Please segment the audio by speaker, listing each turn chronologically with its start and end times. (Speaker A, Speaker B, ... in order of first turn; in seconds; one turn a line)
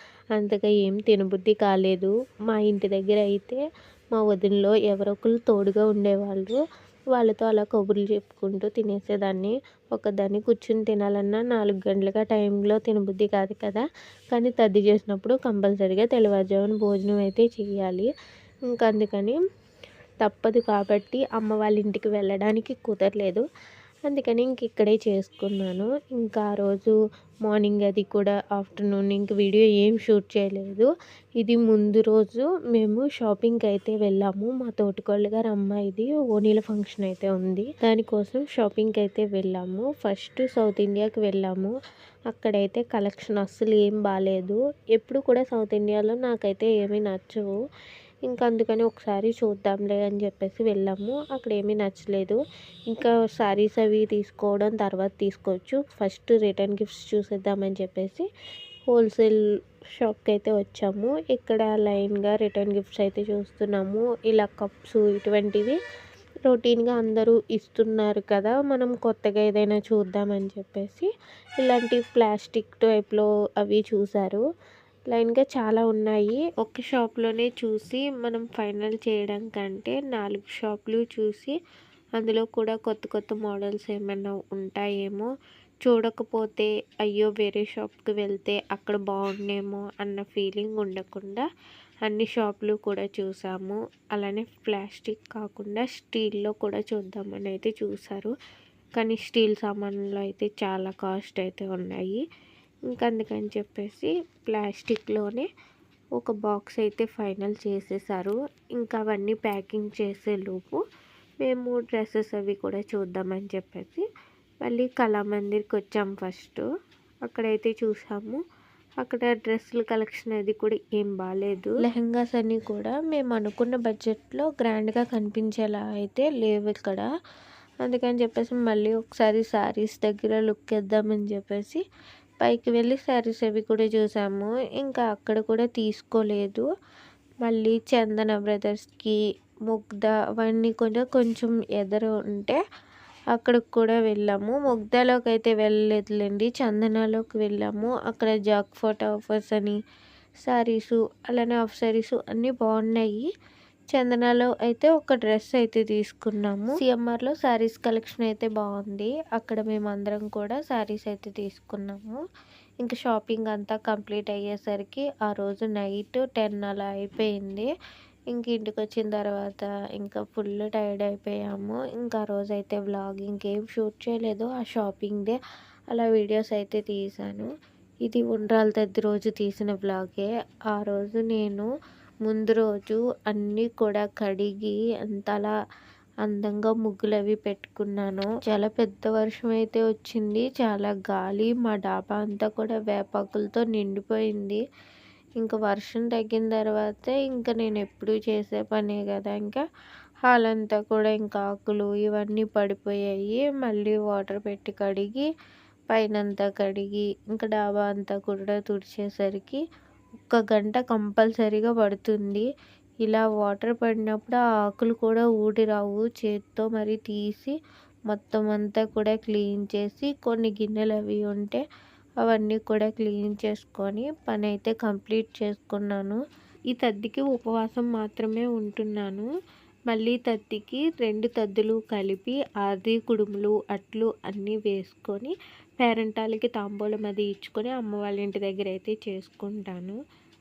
Speaker A: 0.3-3.6
Speaker A: 4.1-6.6
Speaker A: 7.1-18.1
Speaker A: 18.7-19.4
Speaker A: 20.2-23.4
Speaker A: 24.1-26.9
Speaker A: 27.5-41.7
Speaker A: 42.3-47.5
Speaker A: 48.3-52.4
Speaker A: 52.9-58.2
Speaker A: 58.9-59.3
Speaker A: 60.0-65.8
Speaker A: 66.5-71.1
Speaker A: 71.6-74.4
Speaker A: 75.1-81.5
Speaker A: 82.2-85.3
Speaker A: 85.8-91.4
Speaker A: 92.0-98.3
Speaker A: 99.0-102.2
Speaker A: 102.9-105.5
Speaker A: 106.2-110.8
Speaker A: 111.4-114.0
Speaker A: 114.6-116.6
Speaker A: 117.2-118.4
Speaker A: 119.0-127.0
Speaker A: 127.8-131.8
Speaker A: 132.4-136.7
Speaker A: 137.4-139.2
Speaker A: 139.7-142.6
Speaker A: 143.3-149.8
Speaker A: 150.4-153.3
Speaker A: 153.9-162.2
Speaker A: 162.8-167.7
Speaker A: 168.3-175.4
Speaker A: 175.9-177.5
Speaker A: 178.0-181.7
Speaker A: 182.2-185.5
Speaker A: 186.2-194.6
Speaker A: 195.4-199.6
Speaker A: 200.2-205.3
Speaker A: 205.9-209.6
Speaker A: 210.3-212.5
Speaker A: 213.0-217.5
Speaker A: 218.1-221.6
Speaker A: 222.2-226.2
Speaker A: 226.7-229.3
Speaker A: 229.9-240.0